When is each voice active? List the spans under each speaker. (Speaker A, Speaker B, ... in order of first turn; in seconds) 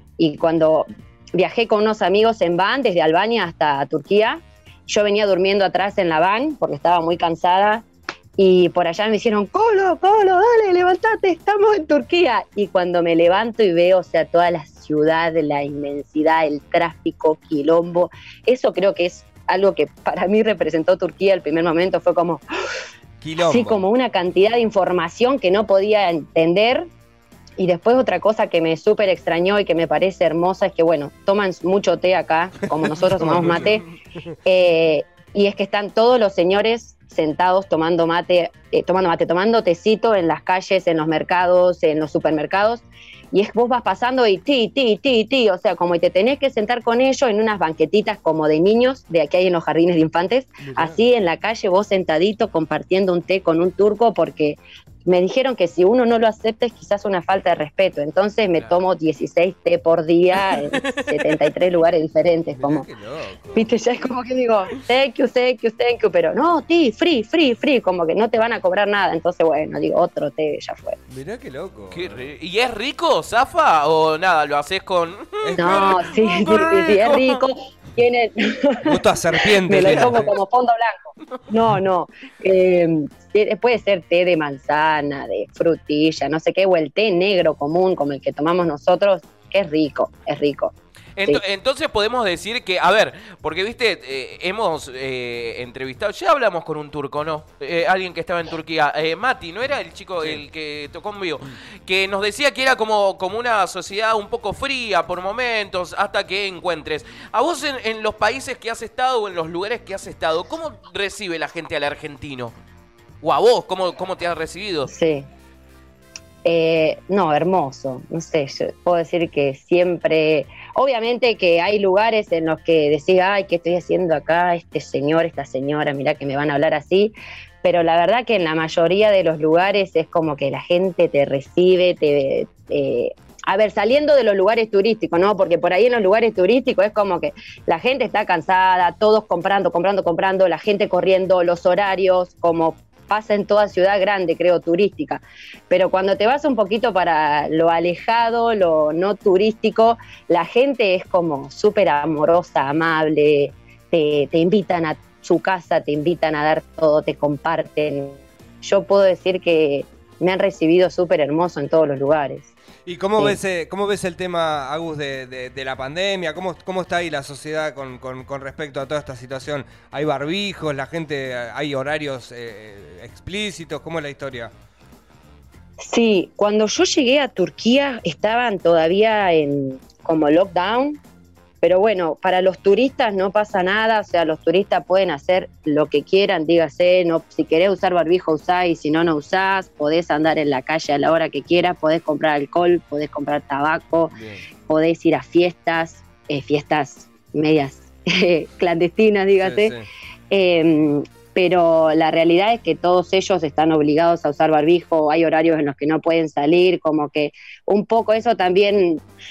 Speaker A: 0.2-7.9, 8.4-22.4, 23.4-26.9, 27.6-33.9, 34.5-62.9, 63.5-71.0, 75.6-90.7, 114.9-115.3, 116.4-162.5, 175.8-181.0, 181.6-199.8, 200.3-209.0
Speaker B: 23.2-23.9, 32.9-33.8, 50.6-51.0, 62.5-63.7, 71.1-72.3, 75.4-76.0, 78.8-80.3, 162.9-174.5, 199.4-199.9
Speaker C: 60.4-61.1, 71.9-77.4, 79.8-80.2, 91.2-112.5, 113.2-114.9